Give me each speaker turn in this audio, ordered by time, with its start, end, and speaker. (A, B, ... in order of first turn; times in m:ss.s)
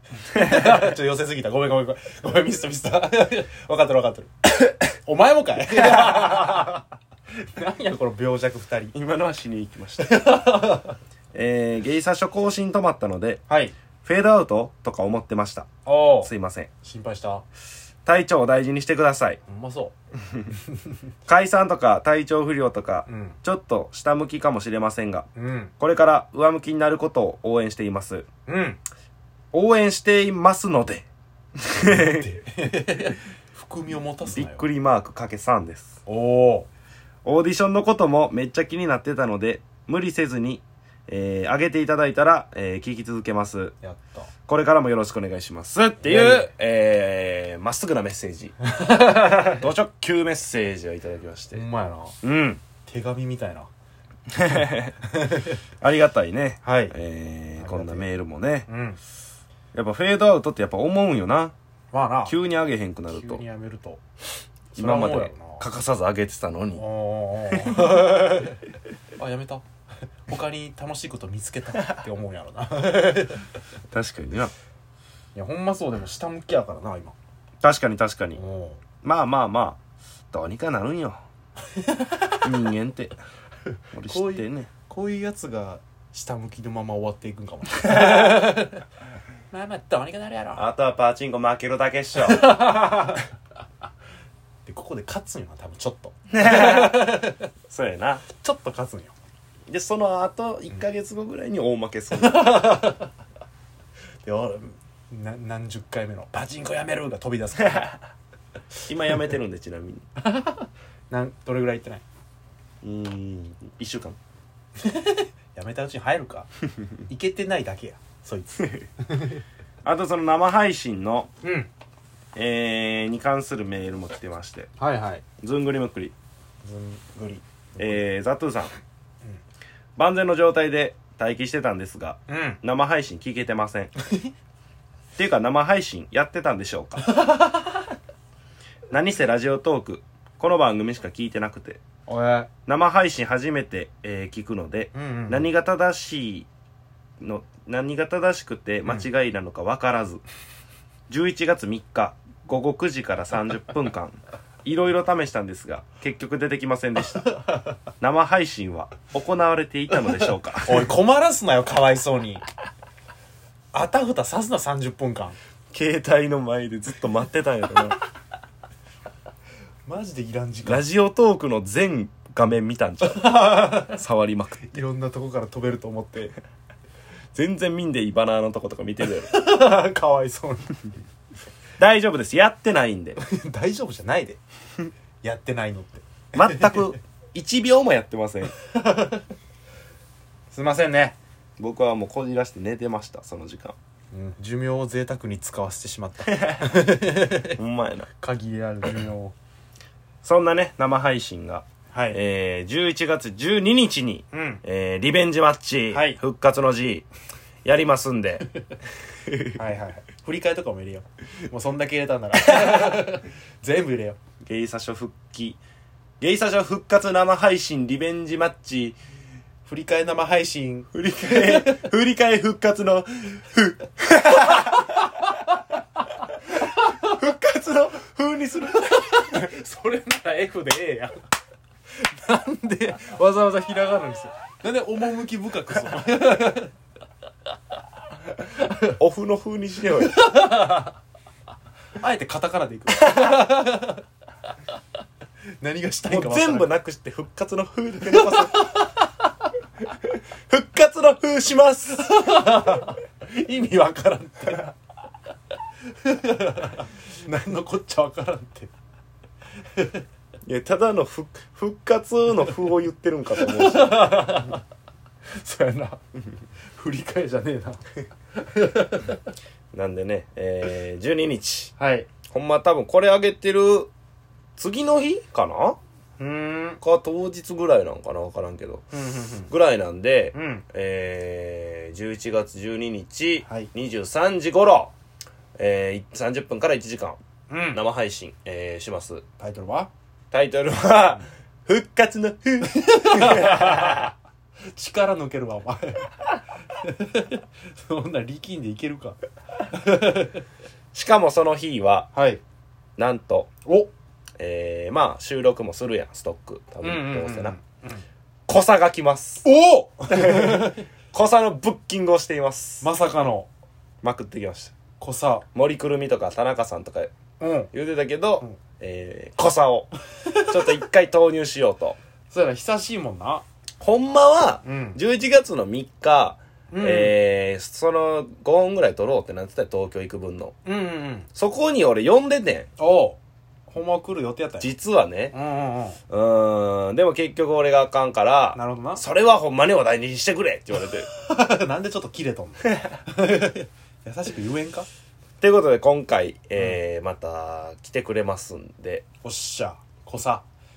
0:00.3-0:08.9 A
0:05.8-0:06.2 B
0:08.9-0:10.4 B
0:10.0-0:11.0 A
0:11.3-0:13.4 B
0:13.5-0:13.7 A
0:14.0-0:15.7 B
0:15.8-0:16.3 A
0:16.2-0:16.7 B
0:16.8-0:17.4 A
0:18.0-0:19.4 B
0:19.5-0:19.9 A
0:20.5-0:20.9 A
0:21.3-0:25.3 B
0:23.1-0:23.4 A
0:25.4-0:25.7 A
0:25.8-0:28.2 B
0:28.5-0:28.8 A
0:29.5-0:31.0 B
0:31.6-0:32.2 B
0:31.8-0:34.6 A
0:34.2-0:36.0 B
0:36.0-0:36.7 A
0:37.2-0:43.7 B
0:43.8-0:44.3 A
0:44.5-0:48.5 B
0:46.0-0:46.5 A
0:48.7-0:49.6 A
0:49.2-0:51.6 B
0:51.5-0:52.2 A
0:52.2-0:52.6 B
0:52.9-0:53.7 A
0:54.3-0:55.0 B
0:55.1-0:55.6 A
0:55.8-0:58.7 B
0:56.6-0:56.9 A
0:57.6-0:58.1 A
0:58.7-0:59.0 A
0:59.7-1:01.5 B
1:01.9-1:02.3 A
1:02.2-1:03.4 B
1:03.1-1:04.0 A
1:04.7-1:05.6 A
1:04.8-1:06.8 B
1:06.7-1:08.6 A
1:07.5-1:08.3 B
1:09.2-1:09.6 A
1:10.2-1:13.4 A
1:13.9-1:14.5 B
1:15.3-1:17.1 A
1:17.6-1:18.4 B
1:18.3-1:18.8 A
1:19.0-1:19.8 B
1:20.3-1:21.2 B
1:22.4-1:23.2 B
1:23.9-1:24.7 B
1:24.0-1:28.8 A
1:29.5-1:30.6 A
1:30.6-1:32.9 B
1:32.2-1:33.2 A
1:34.6-1:37.4 A
1:36.3-1:38.2 B
1:38.4-1:39.1 A
1:39.7-1:42.8 B
1:42.2-1:43.1 A
1:44.2-1:47.9 A
1:48.8-1:50.0 B
1:50.2-1:52.0 A
1:52.8-1:54.2 B
1:54.8-1:56.5 A
1:57.1-1:59.4 A
1:59.8-2:01.3 B
2:01.4-2:01.7 A
2:02.3-2:04.7 B
2:04.8-2:05.2 A
2:05.4-2:06.1 B
2:06.6-2:08.1 A
2:07.8-2:08.7 B
2:10.0-2:13.9 B
2:12.3-2:12.6 A
2:15.2-2:17.1 B
2:17.2-2:17.6 A
2:18.9-2:21.8 B
2:22.1-2:22.5 A
2:22.6-2:26.5 B
2:24.9-2:25.5 A
2:27.2-2:30.2 B
2:31.1-2:37.4 B
2:38.0-2:40.9 B
2:40.6-2:42.4 A
2:43.7-2:45.4 A
2:45.7-2:48.0 B
2:49.9-2:50.8 A
2:50.6-2:54.7 B
2:53.0-2:54.0 A
2:54.6-2:56.3 A
2:57.3-2:59.3 B
2:59.2-3:00.9 A
3:01.8-3:03.2 B
3:03.2-3:04.4 A
3:05.2-3:06.9 A
3:06.3-3:08.5 B
3:08.7-3:09.2 A
3:10.5-3:11.2 A
3:11.6-3:13.7 B
3:14.1-3:17.6 A
3:16.3-3:16.7 B
3:17.6-3:18.1 B
3:18.2-3:19.3 A
3:20.2-3:27.0 B
3:21.9-3:22.2 A
3:24.3-3:24.6 A
3:25.9-3:26.2 A
3:27.6-3:28.5 B
3:29.3-3:29.6 B
3:29.6-3:34.2 A
3:32.6-3:32.9 B
3:34.4-3:35.6 B
3:36.2-3:39.0 B
3:39.6-3:41.8 A
3:40.9-3:44.9 B
3:46.7-3:49.4 B
3:49.0-3:51.2 A
3:52.0-3:56.7 A
3:58.8-4:00.2 B
4:00.1-4:00.9 A
4:02.0-4:04.0 A
4:05.6-4:06.7 A
4:06.1-4:08.7 B
4:08.1-4:09.1 A
4:10.0-4:12.2 B
4:12.0-4:14.7 A
4:16.0-4:18.7 A
4:19.8-4:20.0 A
4:20.4-4:24.3 B
4:23.4-4:24.6 A
4:25.4-4:26.0 A
4:26.7-4:27.8 A
4:28.4-4:29.2 A
4:29.7-4:31.7 B
4:31.8-4:32.1 A
4:32.3-4:33.9 B
4:34.6-4:35.8 B
4:36.2-4:36.8 A
4:36.8-4:38.9 B
4:38.9-4:39.5 A
4:39.5-4:44.9 B
4:40.3-4:40.6 A
4:45.6-4:47.2 B
4:47.5-4:47.8 A
4:47.7-4:49.2 B
4:49.4-4:49.9 A
4:50.3-4:54.1 B
4:52.6-4:54.1 A
4:54.7-4:59.2 A
4:59.7-5:00.4 A
5:00.9-5:02.1 B
5:02.1-5:02.4 A
5:03.0-5:03.5 B
5:03.6-5:03.9 A
5:04.4-5:07.6 B
5:06.8-5:08.0 A
5:08.5-5:09.4 B
5:09.4-5:10.8 A
5:10.1-5:12.9 B
5:12.8-5:13.5 A
5:14.0-5:14.7 B
5:15.0-5:15.4 A
5:15.5-5:17.1 B
5:17.4-5:17.7 A
5:17.7-5:22.0 B
5:20.2-5:20.6 A
5:22.3-5:23.4 A
5:23.8-5:30.6 B
5:24.6-5:25.0 A
5:26.7-5:27.1 A
5:30.6-5:31.3 A
5:31.3-5:32.7 B
5:32.8-5:34.7 A
5:34.6-5:35.3 B
5:35.3-5:36.0 A
5:36.1-5:41.1 B
5:38.5-5:39.0 A
5:41.1-5:44.9 A
5:45.4-5:49.0 B
5:49.2-5:50.4 A